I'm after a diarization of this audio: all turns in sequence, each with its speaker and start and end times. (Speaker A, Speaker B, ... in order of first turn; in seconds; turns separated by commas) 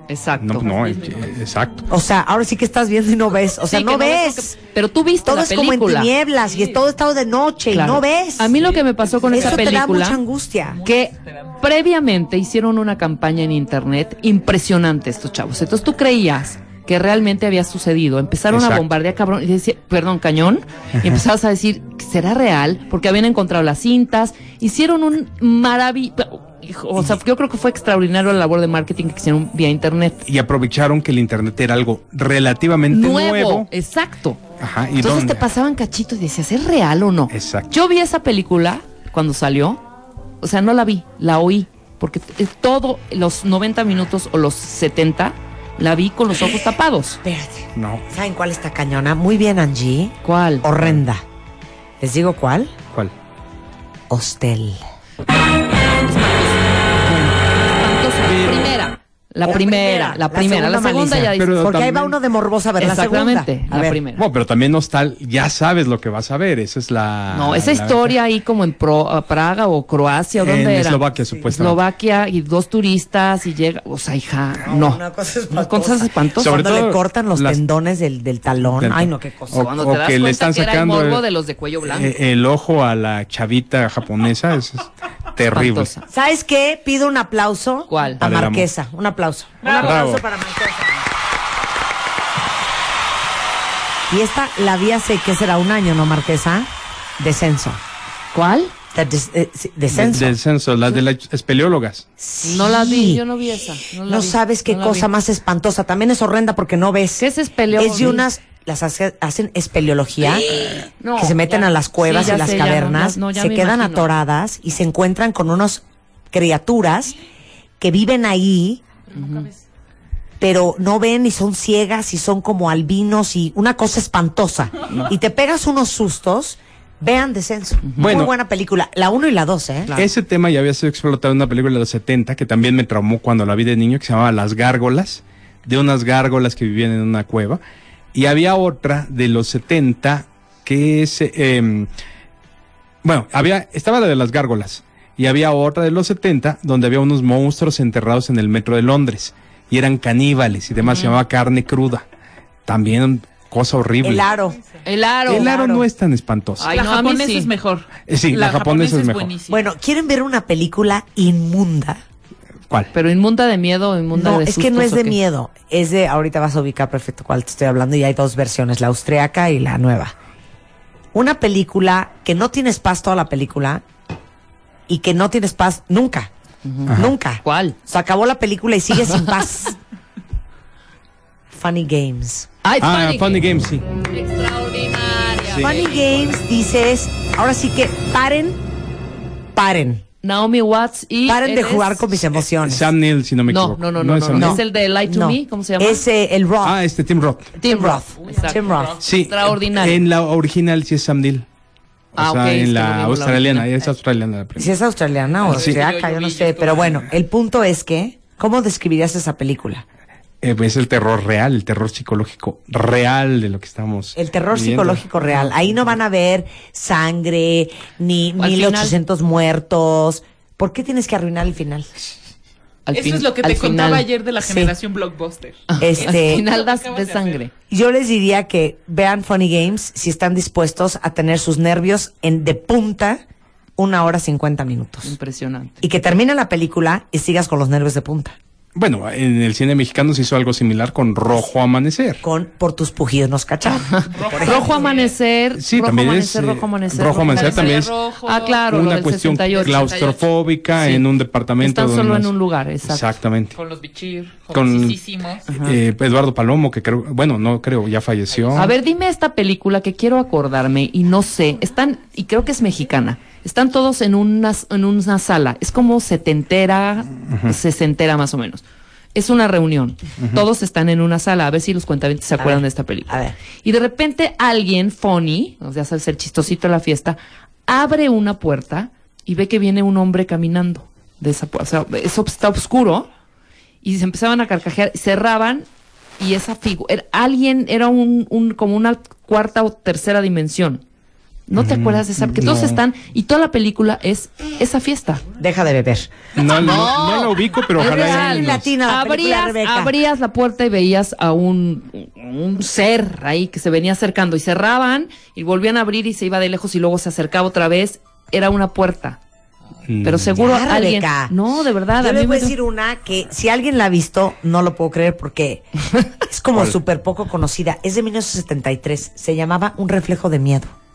Speaker A: 0.1-0.8, Speaker B: 0.4-1.9, Speaker C: 0.9-1.2, Speaker D: 1.9-4.6, Speaker A: 3.7-6.1, Speaker D: 5.2-8.6, Speaker C: 6.4-6.8, Speaker A: 7.7-10.2, Speaker C: 8.6-9.8, Speaker D: 9.3-10.8, Speaker C: 10.7-11.5, Speaker A: 10.8-30.3, Speaker B: 18.5-18.9, Speaker B: 30.3-33.7, Speaker A: 32.9-34.4, Speaker B: 34.6-35.5, Speaker A: 35.0-39.8, Speaker B: 37.3-37.7, Speaker A: 40.4-47.2, Speaker D: 47.2-51.2, Speaker B: 47.8-48.0, Speaker A: 50.2-50.7, Speaker D: 52.0-52.8, Speaker D: 54.1-54.8, Speaker A: 56.1-56.7, Speaker D: 57.1-57.3, Speaker A: 57.7-61.8, Speaker B: 58.2-58.8, Speaker D: 59.4-64.0, Speaker B: 61.4-62.2, Speaker A: 62.8-64.2, Speaker B: 64.2-68.2, Speaker A: 67.3-76.6, Speaker B: 70.4-71.8, Speaker D: 74.6-79.7, Speaker B: 76.4-77.6, Speaker B: 78.6-81.2, Speaker A: 79.5-82.1, Speaker B: 81.8-85.9, Speaker A: 85.5-86.1, Speaker D: 86.1-91.0, Speaker A: 87.9-88.2, Speaker B: 88.2-88.7, Speaker C: 89.6-89.9, Speaker B: 89.7-90.2, Speaker D: 94.1-97.8, Speaker A: 98.3-98.7, Speaker D: 98.9-100.4, Speaker B: 99.9-102.1, Speaker D: 102.2-103.2, Speaker A: 102.4-105.1, Speaker D: 104.0-110.6, Speaker A: 107.2-108.2, Speaker A: 110.5-114.1, Speaker D: 111.2-117.2, Speaker D: 117.8-118.8, Speaker C: 119.1-119.6, Speaker A: 119.2-119.5, Speaker D: 120.4-129.9, Speaker A: 127.8-128.2, Speaker B: 128.0-128.3, Speaker B: 130.0-137.6, Speaker B: 138.1-141.9, Speaker B: 143.0-152.0, Speaker A: 150.8-151.2, Speaker B: 152.7-154.3, Speaker D: 154.0-154.6, Speaker A: 154.8-155.5, Speaker D: 155.3-155.9, Speaker B: 155.3-156.7, Speaker A: 156.6-157.5, Speaker C: 156.6-159.7, Speaker B: 158.1-159.3, Speaker D: 159.5-162.0, Speaker A: 162.9-165.2, Speaker D: 164.1-170.2, Speaker D: 171.1-173.8, Speaker D: 174.9-176.3, Speaker A: 176.7-177.8, Speaker B: 176.9-177.1, Speaker D: 176.9-179.8, Speaker D: 181.5-182.5, Speaker A: 182.6-183.4, Speaker B: 182.8-183.9, Speaker A: 184.1-186.3, Speaker D: 185.6-188.6, Speaker D: 189.6-190.0, Speaker A: 190.2-192.1, Speaker D: 191.3-192.9, Speaker B: 192.6-194.6, Speaker A: 193.5-196.0, Speaker D: 194.3-196.8, Speaker B: 196.6-197.5, Speaker D: 197.6-199.0, Speaker A: 197.6-200.0, Speaker C: 198.2-199.2, Speaker B: 199.0-201.5, Speaker B: 202.2-204.8, Speaker A: 202.2-203.9, Speaker D: 204.6-209.8, Speaker C: 205.4-207.1, Speaker B: 205.5-205.8, Speaker B: 210.4-215.1, Speaker D: 214.2-221.9, Speaker A: 218.4-219.0, Speaker A: 222.9-224.1, Speaker C: 222.9-227.4, Speaker D: 224.4-224.7, Speaker A: 225.7-227.5, Speaker D: 225.8-226.5, Speaker D: 227.7-233.2, Speaker D: 233.8-235.2, Speaker A: 235.0-235.8, Speaker D: 235.8-238.4, Speaker B: 238.8-242.2, Speaker D: 242.2-244.8, Speaker A: 243.9-250.0, Speaker C: 244.1-245.2, Speaker B: 245.6-248.0, Speaker C: 247.2-248.7, Speaker B: 248.7-253.6, Speaker C: 249.6-250.3, Speaker A: 250.8-251.1, Speaker A: 251.6-253.1, Speaker C: 253.6-255.6, Speaker B: 254.5-255.0, Speaker A: 255.5-255.8, Speaker B: 255.6-258.7, Speaker C: 258.3-258.8, Speaker A: 258.6-268.6, Speaker B: 267.3-267.6, Speaker A: 269.1-283.1, Speaker D: 272.4-273.4, Speaker A: 283.8-285.7, Speaker A: 286.2-290.8, Speaker A: 291.5-295.2, Speaker B: 291.6-292.8, Speaker D: 295.4-296.1, Speaker B: 296.4-298.7, Speaker A: 296.6-309.2, Speaker D: 297.8-299.9, Speaker B: 309.9-310.4, Speaker A: 310.0-312.6, Speaker D: 310.4-311.3, Speaker D: 312.0-320.7